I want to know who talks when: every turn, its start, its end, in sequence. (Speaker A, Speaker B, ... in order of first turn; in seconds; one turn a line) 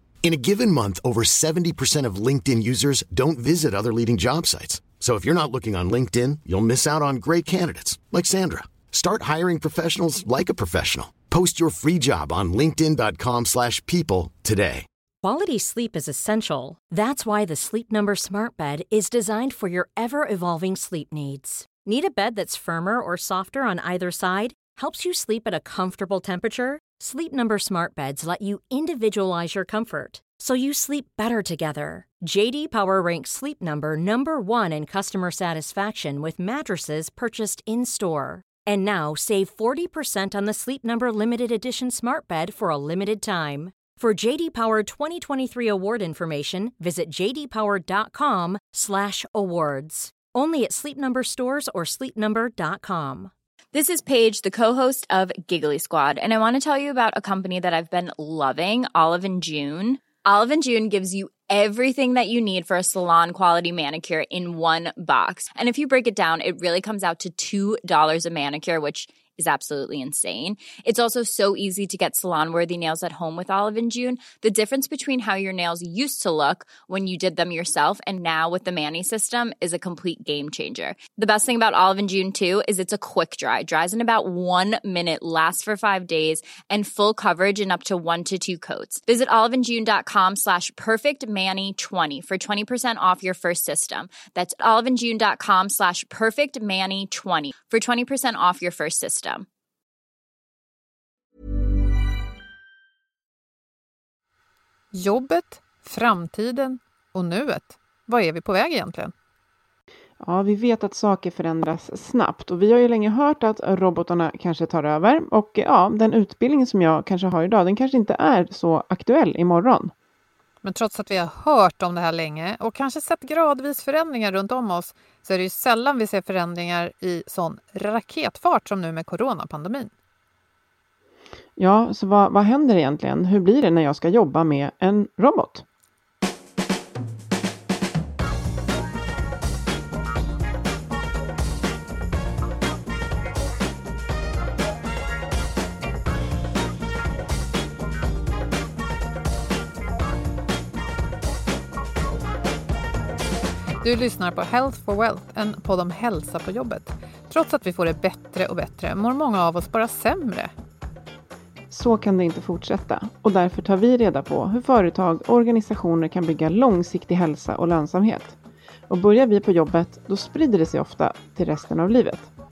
Speaker A: 0.2-14.9
Speaker B: 15.2-53.3
Speaker C: 53.7-99.5
Speaker D: 104.9-109.1
Speaker E: 110.2-119.9
Speaker D: 120.6-129.9
Speaker E: 131.6-135.6
Speaker D: 153.8-160.5
Speaker E: 161.7-168.4
Speaker E: 168.9-172.3